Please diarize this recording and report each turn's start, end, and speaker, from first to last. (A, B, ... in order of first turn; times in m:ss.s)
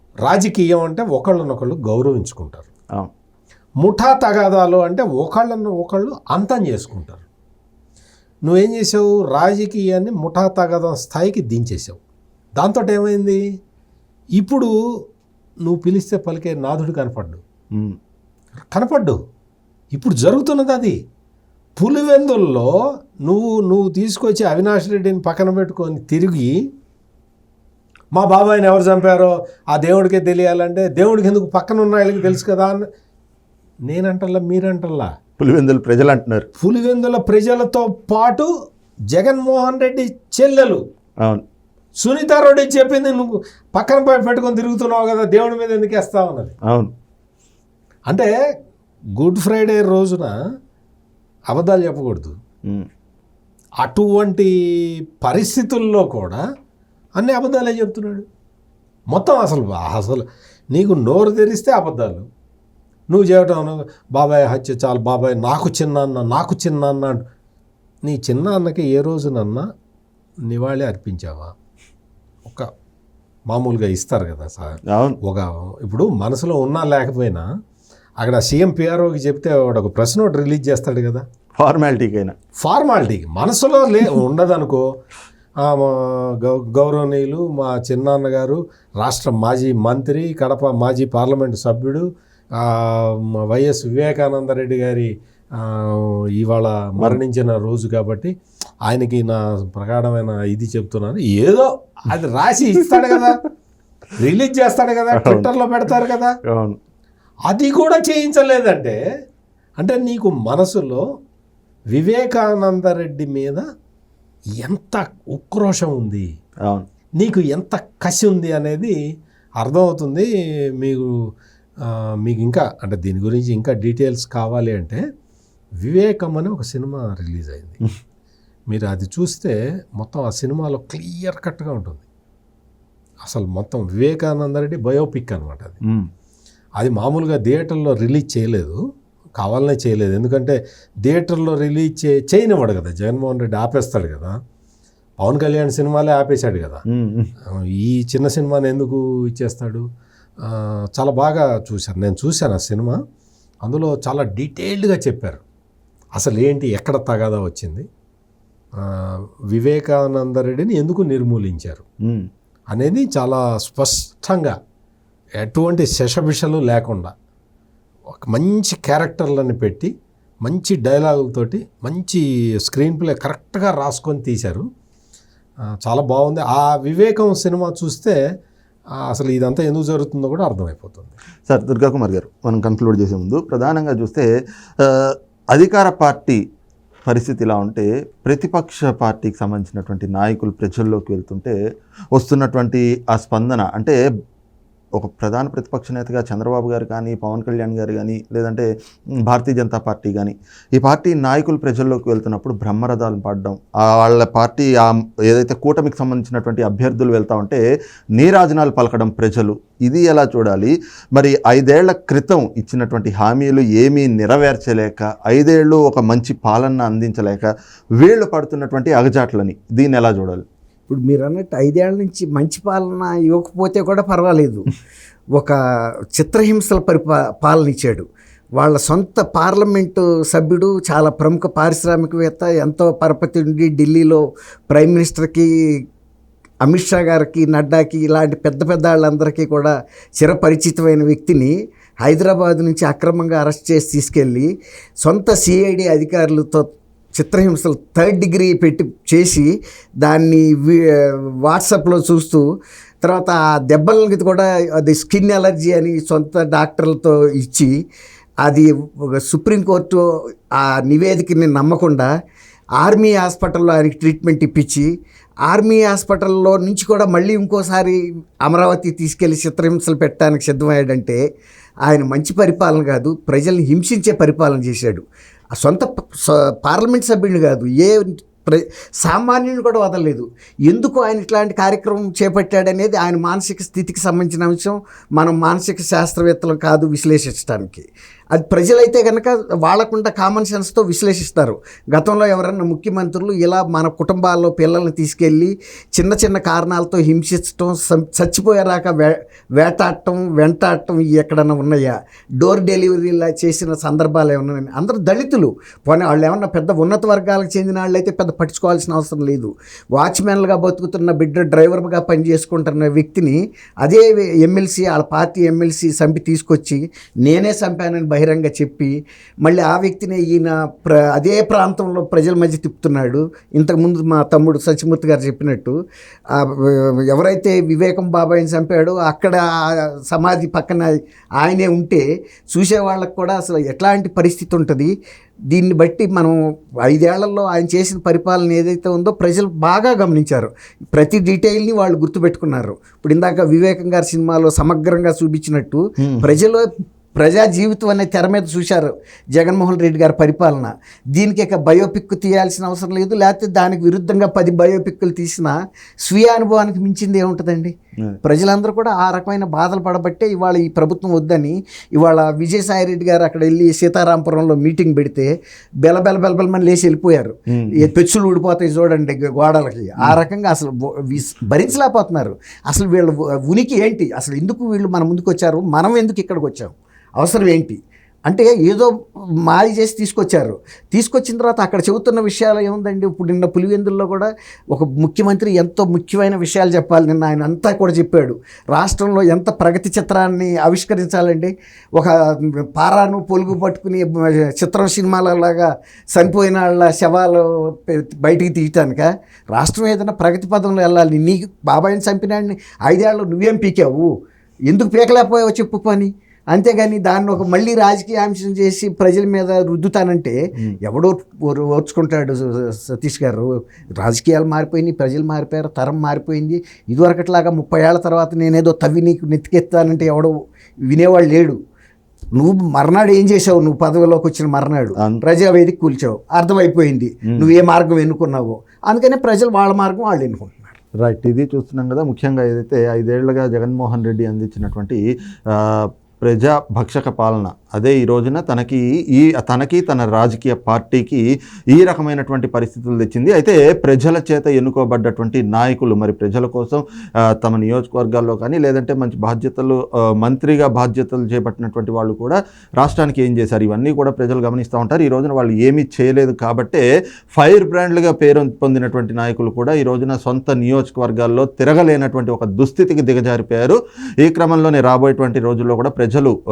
0:00.2-0:02.7 A
0:03.8-0:07.2 A
0:08.4-0:12.0 A
0:12.6-0:13.4 A
0:14.4-0:14.7 A
0:15.6-0:17.4 A
0:18.7-0:19.2 A
0:19.9-0:21.0 A
0:21.8-0:22.7 A
0:23.2-0:26.6 A
0:28.1-0:32.9 A
0:33.9-0:35.1 A
0:35.4-0:36.5 B
0:36.6-0:38.5 A
0:39.1-0:40.8 A
0:42.0-0:46.6 A
0:49.2-0:50.3 A
0:51.5-0:52.4 A
0:53.8-0:56.4 A
0:57.2-0:58.3 A
0:59.1-1:02.3 A
1:03.1-1:07.2 A
1:08.0-1:09.7 A
1:10.5-1:11.5 A
1:13.5-1:17.5 A
1:14.9-1:15.2 B
1:18.2-1:21.2 A
1:21.6-1:22.4 B
1:22.6-1:24.8 A
1:25.6-1:32.0 A
1:32.6-1:38.3 A
1:38.9-1:43.4 A
1:44.2-1:46.4 A
1:45.1-1:45.5 B
1:46.5-1:46.8 B
1:47.5-1:49.0 A
1:49.8-1:51.0 A
1:51.9-1:53.6 A
1:54.6-1:56.3 A
1:57.2-1:59.0 A
1:59.6-2:00.3 A
2:00.8-2:01.2 A
2:01.8-2:05.0 A
2:05.8-2:07.8 A
2:08.7-2:12.0 A
2:13.2-2:15.8 A
2:16.8-2:18.8 A
2:19.4-2:24.4 A
2:25.2-2:26.8 A
2:26.9-2:27.3 B
2:27.5-2:29.8 A
2:30.4-2:33.0 A
2:33.6-2:35.4 A
2:36.2-2:37.9 A
2:38.8-2:41.8 A
2:42.7-2:44.6 A
2:45.4-2:47.1 A
2:48.1-2:49.9 A
2:50.4-2:54.7 A
2:55.7-2:58.2 A
2:59.0-3:01.2 A
3:01.5-3:04.3 B
3:04.8-3:06.4 B
3:07.1-3:11.6 B
3:12.2-3:14.0 B
3:15.0-3:18.7 B
3:19.3-3:27.6 B
3:28.2-3:37.5 B
3:38.0-3:40.4 B
3:40.9-3:44.7 C
3:46.2-3:48.1 C
3:48.6-3:55.5 C
3:56.6-4:04.5 C
4:05.0-4:09.5 C
4:10.0-4:12.4 C
4:13.0-4:17.7 C
4:18.4-4:22.1 C
4:22.8-4:24.9 C
4:25.5-4:31.2 C
4:31.8-4:35.0 C
4:35.6-5:25.8 C
5:26.3-5:34.9 C
5:35.5-6:05.3 C
5:46.0-5:46.3 B
6:05.8-6:44.1 C
6:07.5-6:07.8 B
6:44.7-7:00.4 C
7:00.9-7:01.6 C
7:02.4-7:10.8 C
7:11.0-7:26.8 B
7:27.4-7:36.8 B
7:37.4-7:46.4 B